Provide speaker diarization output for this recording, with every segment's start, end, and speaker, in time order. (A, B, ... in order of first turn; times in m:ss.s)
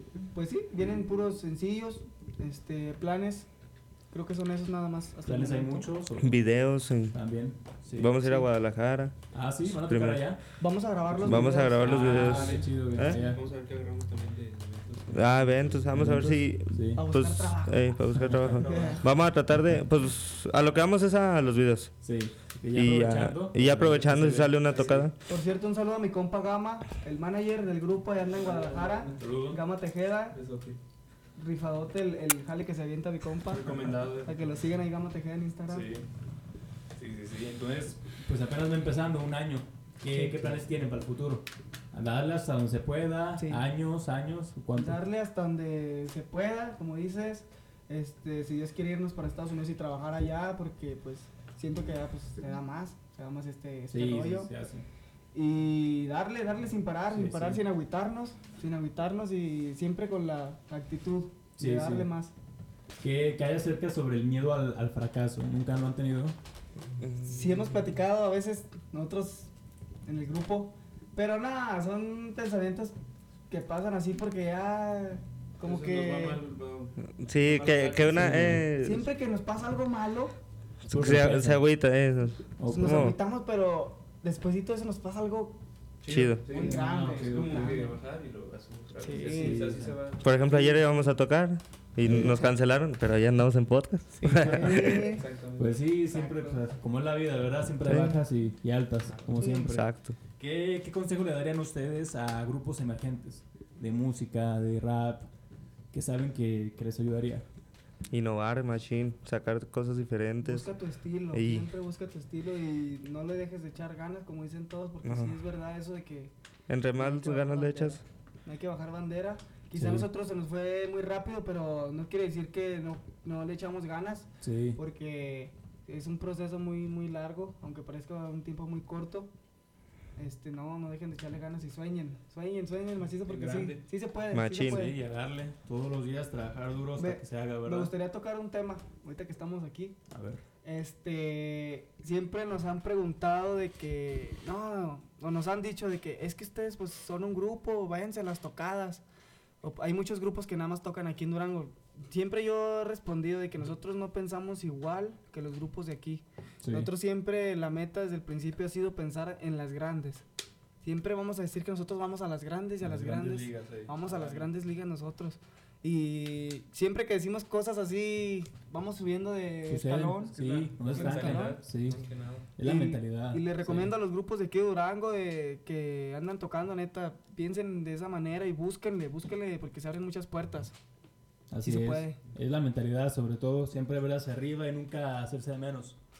0:00.3-0:03.5 A
0:04.1-0:05.9 A
0:05.2-0:06.4 B
0:06.2-0:07.2 C
0:07.1-0:08.4 B
0:08.0-0:09.2 C
0:09.3-0:10.4 B
0:09.8-0:10.2 C
0:10.6-0:12.2 A
0:11.2-0:13.4 B
0:11.2-0:13.2 C
0:12.1-0:16.1 D
0:15.1-0:21.9 C
0:15.9-0:17.0 B
0:16.9-0:18.0 A
0:18.1-0:19.1 B
0:18.6-0:19.0 A
0:22.0-0:25.0 B
0:22.7-0:25.2 C
0:25.3-0:30.4 A
0:28.2-0:29.4 D
0:29.2-0:29.6 B
0:30.3-0:30.8 D
0:31.4-0:35.9 A
0:33.4-0:34.6 D
0:35.7-0:36.1 B
0:37.0-0:45.0 B
0:40.1-0:40.5 A
0:43.4-0:43.6 A
0:44.7-0:54.5 A
0:53.9-0:54.8 B
0:55.3-1:02.3 A
0:57.1-0:57.6 B
1:01.6-1:02.1 B
1:03.0-1:06.3 B
1:07.0-1:07.5 C
1:07.2-1:09.5 A
1:10.0-1:12.9 A
1:13.5-1:16.4 A
1:15.6-1:18.5 D
1:17.2-1:19.0 C
1:18.1-1:18.6 B
1:18.8-1:20.3 A
1:20.9-1:23.2 C
1:20.9-1:21.6 B
1:22.6-1:23.1 B
1:22.7-1:25.6 A
1:26.0-1:30.2 D
1:26.1-1:26.4 C
1:26.5-1:28.0 A
1:29.0-1:29.7 A
1:29.2-1:29.9 B
1:30.2-1:35.0 C
1:30.4-1:31.1 A
1:32.0-1:32.3 B
1:32.1-1:32.5 A
1:34.1-1:35.2 A
1:34.4-1:35.0 B
1:34.5-1:35.8 D
1:35.6-1:45.3 B
1:36.1-1:36.6 A
1:37.8-1:38.2 C
1:39.4-1:40.2 C
1:45.9-1:47.4 B
1:48.1-1:50.7 C
1:50.4-1:56.3 A
1:51.3-1:51.7 C
1:55.0-1:55.4 C
1:56.7-1:58.0 C
1:57.0-2:09.3 A
1:59.8-2:00.0 B
2:04.4-2:04.8 B
2:10.2-2:14.9 A
2:13.2-2:13.8 D
2:14.3-2:14.9 C
2:14.6-2:17.9 B
2:17.0-2:20.0 A
2:20.1-2:20.4 B
2:20.6-2:29.0 A
2:29.6-2:40.2 A
2:36.6-2:36.9 B
2:40.8-2:50.4 A
2:42.8-2:43.4 B
2:43.0-2:44.5 D
2:49.7-2:52.0 B
2:50.3-2:52.5 D
2:50.9-2:51.6 A
2:52.6-2:53.9 B
2:52.6-3:00.7 A
3:01.5-3:06.0 B
3:01.6-3:02.2 A